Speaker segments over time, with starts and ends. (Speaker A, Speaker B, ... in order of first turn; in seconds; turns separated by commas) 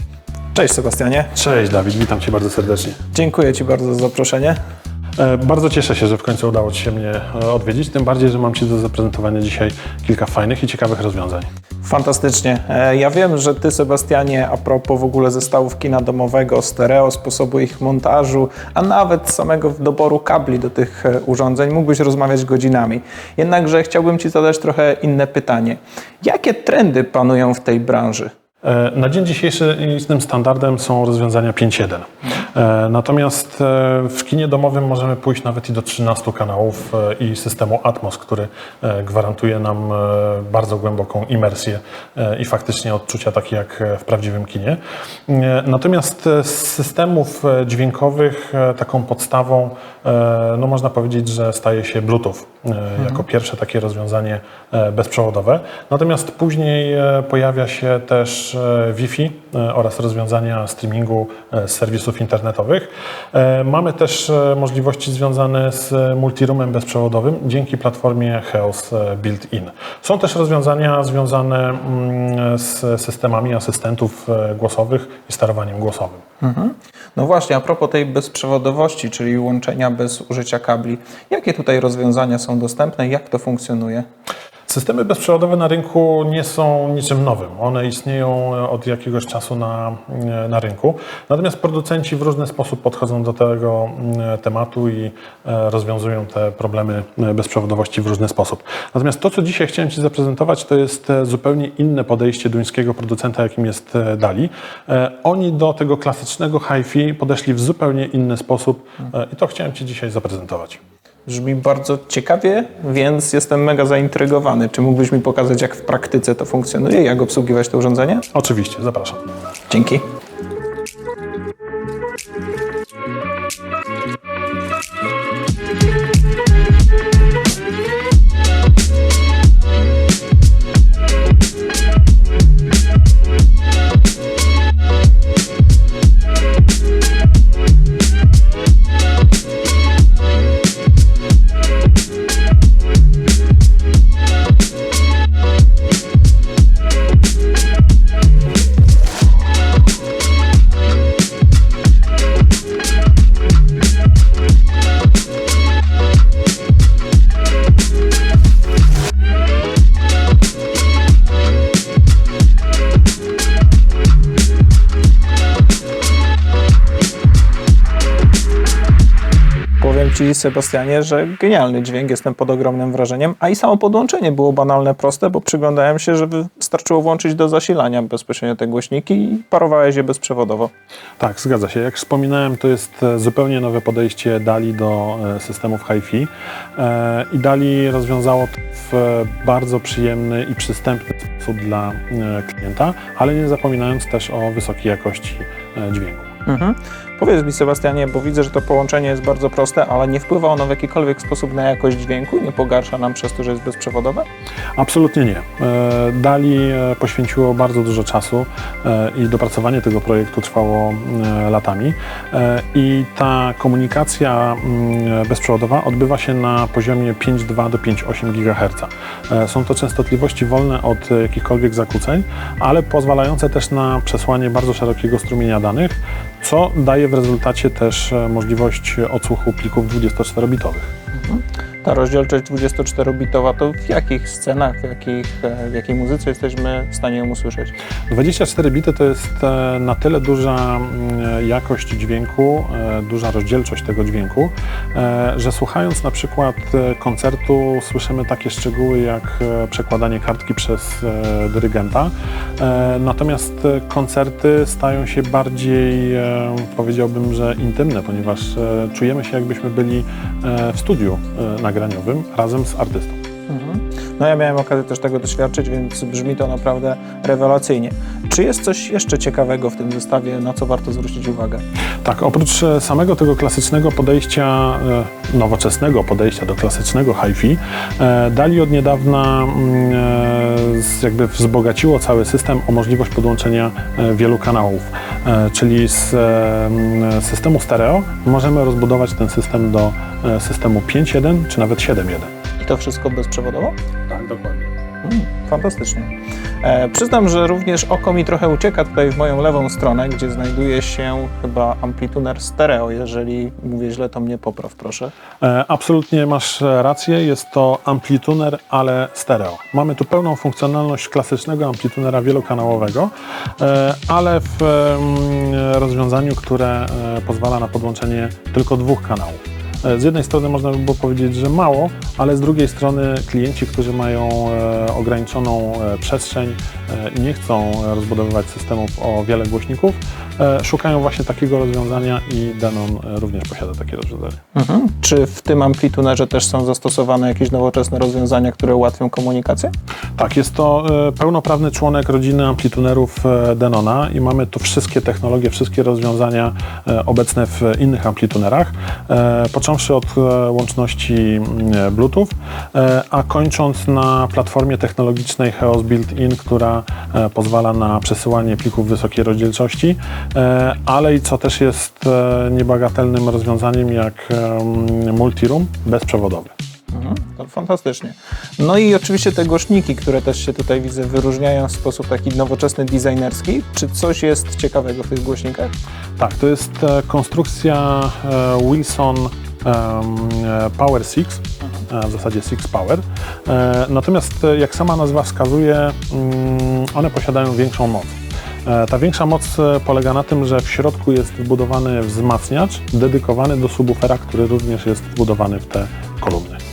Speaker A: 0.5-1.3, Speaker B: 1.3-3.0, Speaker A: 3.1-4.6, Speaker B: 5.2-11.5, Speaker A: 11.8-28.3, Speaker B: 28.6-76.2, Speaker A: 76.4-84.0, Speaker B: 84.7-110.8, Speaker A: 111.2-118.3, Speaker B: 118.3-119.2, Speaker A: 119.7-120.0, Speaker A: 169.8-180.7, Speaker B: 181.2-196.3, Speaker A: 196.4-204.3, Speaker B: 204.8-230.9, Speaker A: 231.1-237.7, Speaker B: 238.1-263.2, Speaker A: 263.5-271.6, Speaker B: 272.0-292.3, Speaker A: 292.6-293.7, Speaker B: 294.1-294.7, Speaker A: 295.0-305.1, Speaker B: 305.4-334.4, Speaker A: 334.5-339.7, Speaker B: 340.2-366.5, Speaker A: 366.9-375.7, Speaker B: 376.2-396.6